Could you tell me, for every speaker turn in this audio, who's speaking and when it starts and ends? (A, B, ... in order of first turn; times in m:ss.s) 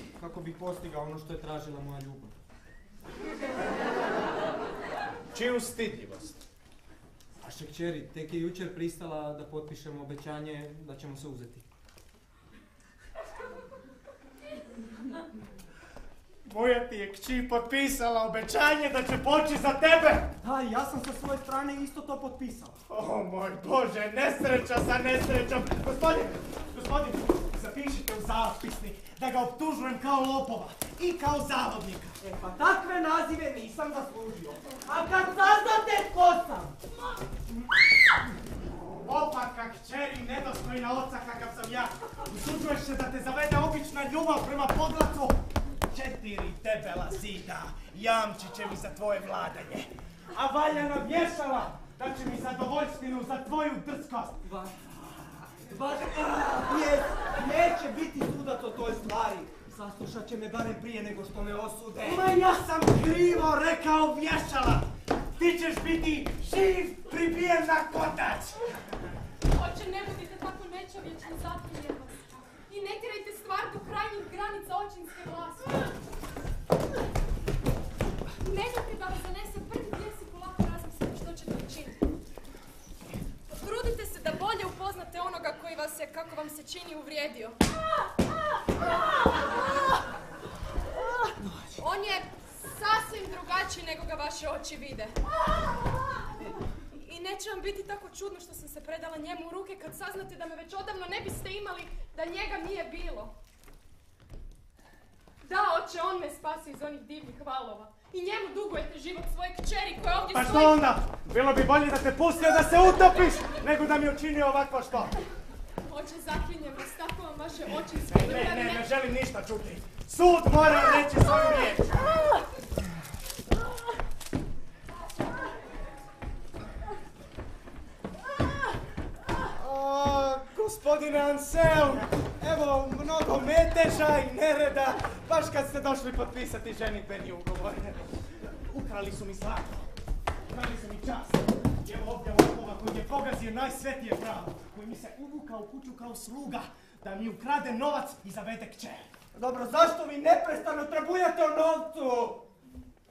0:00.2-0:02.3 A
0:05.3-0:06.4 B
0:07.4-0:11.6 A
0:16.4-0:20.3 B
0:20.4-0:22.8 A
0:22.9-0:32.2 B
0:32.2-0:36.8 A
0:39.0-0:54.4 B
0:54.4-0:55.0 A
0:55.5-1:02.3 A
1:02.0-1:08.6 B
1:09.5-1:15.9 C
1:18.4-1:22.0 C
1:23.5-1:27.6 C
1:31.8-1:35.2 C
1:36.9-1:43.3 C
1:45.4-1:50.8 C
1:50.3-1:55.2 B
1:55.8-1:58.9 C
1:58.0-2:02.2 B
2:09.5-2:19.9 B
2:20.5-2:29.1 B
2:29.3-2:32.4 A